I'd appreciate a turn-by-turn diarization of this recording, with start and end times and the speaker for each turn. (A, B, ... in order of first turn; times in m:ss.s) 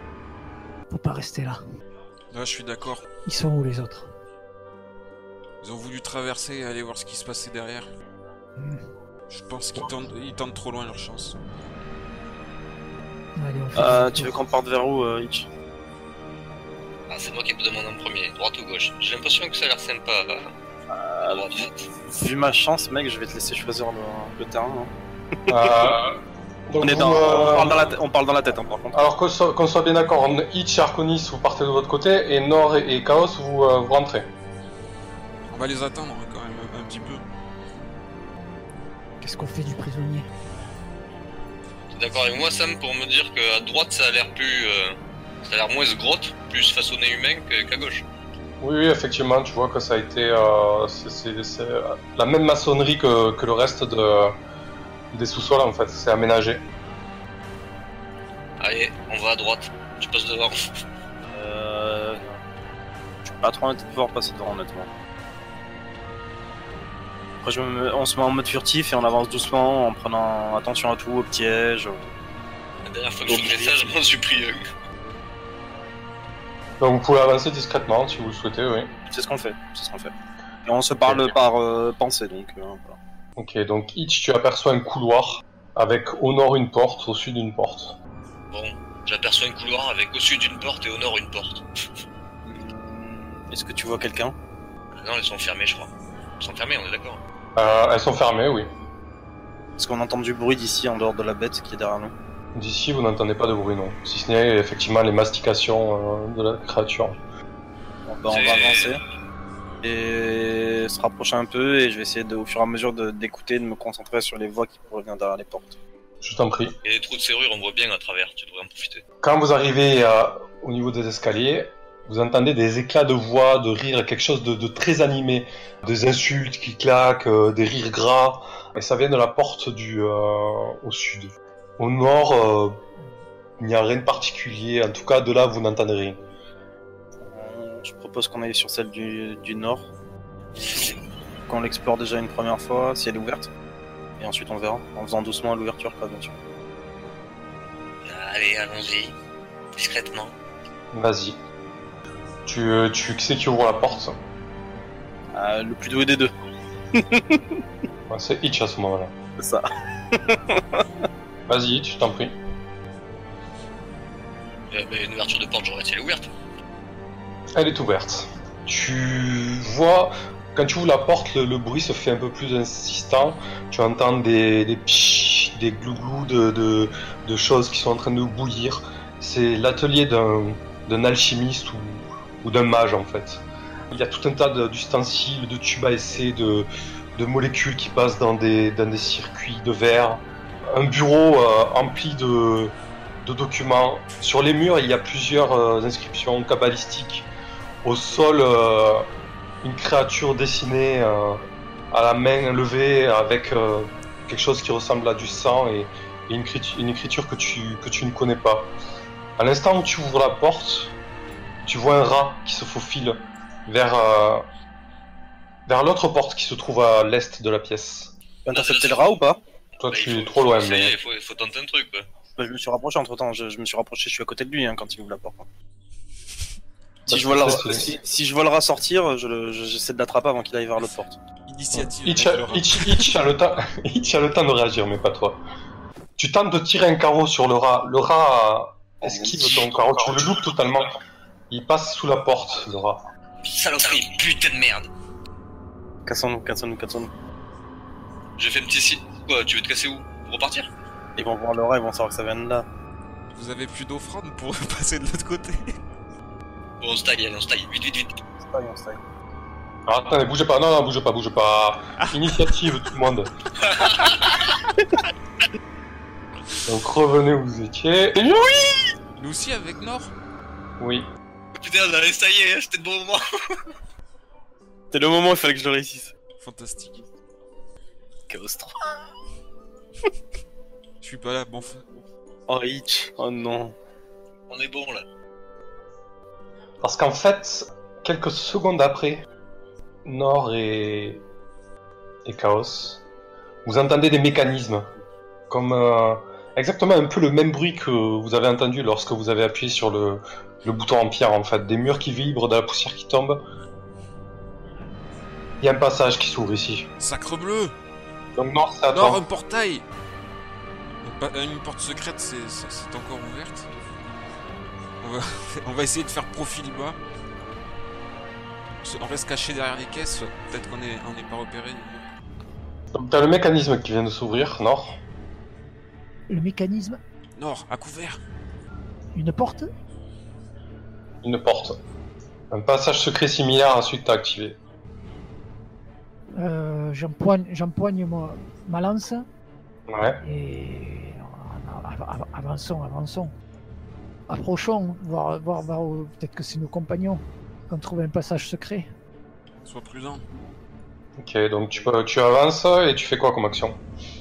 0:00.9-0:01.6 A
0:02.3-0:03.0 B
0:03.3-0:04.1 A
0:05.6-0:07.9 B
0:08.6-0:08.8 A
0:09.3-0:11.4 B
0:13.4-0:14.4 A
0:13.8-0:15.5 C
0:17.1-0:20.5 D
0:20.9-0:24.9 C
0:21.2-0:21.9 D
0:25.5-0:25.9 C
0:25.5-0:26.2 E
0:26.7-0:27.9 E
0:26.8-0:29.0 C
0:28.9-0:34.3 E
0:35.5-0:37.2 B
0:39.2-0:40.3 A
0:41.9-0:48.0 D
0:48.6-0:54.4 E
0:55.1-0:56.6 E
0:58.6-1:00.7 D
1:01.3-1:02.4 C
1:03.3-1:04.9 C
1:07.4-1:12.1 C
1:12.8-1:14.7 D
1:13.3-1:13.9 C
1:16.8-1:18.9 E
1:19.1-1:20.1 C
1:20.7-1:23.0 C
1:23.4-1:28.0 E
1:28.5-1:31.7 D
1:32.4-1:34.4 C
1:34.9-1:37.2 D
1:37.6-1:38.7 E
1:39.8-1:42.1 C
1:42.6-1:47.2 E
1:48.1-1:49.0 C
1:48.3-1:49.0 D
1:49.8-1:55.8 C
1:56.2-1:56.8 E
1:56.8-1:59.0 D
1:59.2-2:12.8 E
2:13.6-2:16.2 E
2:17.3-2:19.9 C
2:20.6-2:20.9 C
2:20.7-2:21.0 D
2:21.5-2:23.5 C
2:24.2-2:26.3 C
2:28.0-2:29.2 D
2:29.8-2:30.3 D
2:30.9-2:31.4 E
2:32.5-2:34.2 E
2:35.3-2:36.3 C
2:36.9-2:37.6 C
2:38.1-2:39.1 E
2:39.4-2:40.8 C
2:41.5-2:42.4 E
2:44.7-2:46.3 D
2:47.6-3:17.3 E
3:17.8-3:19.1 E
3:19.6-3:28.7 E
3:29.4-3:31.0 E
3:31.6-3:34.5 E
3:35.7-3:38.1 E
3:38.5-3:39.4 C
3:38.5-3:39.1 D
3:39.8-3:41.0 E
3:39.9-3:42.1 D
3:42.4-3:45.5 C
3:47.1-3:51.2 C
3:47.1-3:48.0 E
3:51.5-3:53.2 B
3:51.7-3:55.4 E
3:56.2-4:01.0 E
3:59.0-3:59.6 C
3:59.6-4:00.2 D
4:01.5-4:03.1 E
4:03.4-4:04.9 D
4:06.1-4:07.1 C
4:08.4-4:10.7 D
4:11.2-4:12.7 C
4:13.3-4:15.8 B
4:16.8-4:18.2 D
4:18.4-4:19.0 C
4:19.9-4:23.3 E
4:23.6-4:24.5 D
4:26.7-4:28.9 E
4:29.2-4:30.1 B
4:30.8-4:31.1 E
4:31.6-4:33.6 D
4:34.9-4:36.1 C
4:36.4-4:37.0 B
4:38.3-4:38.9 C
4:41.0-4:41.9 B
4:42.5-4:43.8 C
4:44.5-4:45.0 D
4:46.8-4:49.2 E
4:50.0-4:51.2 E
4:52.2-4:53.0 E
4:53.6-4:54.9 E
4:55.5-5:03.4 E
5:05.6-5:06.9 E
5:07.0-5:07.8 B
5:08.4-5:09.2 E
5:08.9-5:09.8 B
5:11.0-5:13.7 B
5:15.0-5:17.0 B
5:18.8-5:21.9 B
5:22.9-5:25.0 E
5:26.3-5:27.0 A
5:27.4-5:28.2 B
5:29.2-5:29.7 A
5:31.2-5:31.8 E
5:32.5-5:34.6 E
5:36.3-5:39.3 A
5:39.9-5:40.2 E
5:40.2-5:43.3 A
5:44.3-5:48.9 A
5:49.7-5:50.2 B
5:51.2-5:53.8 E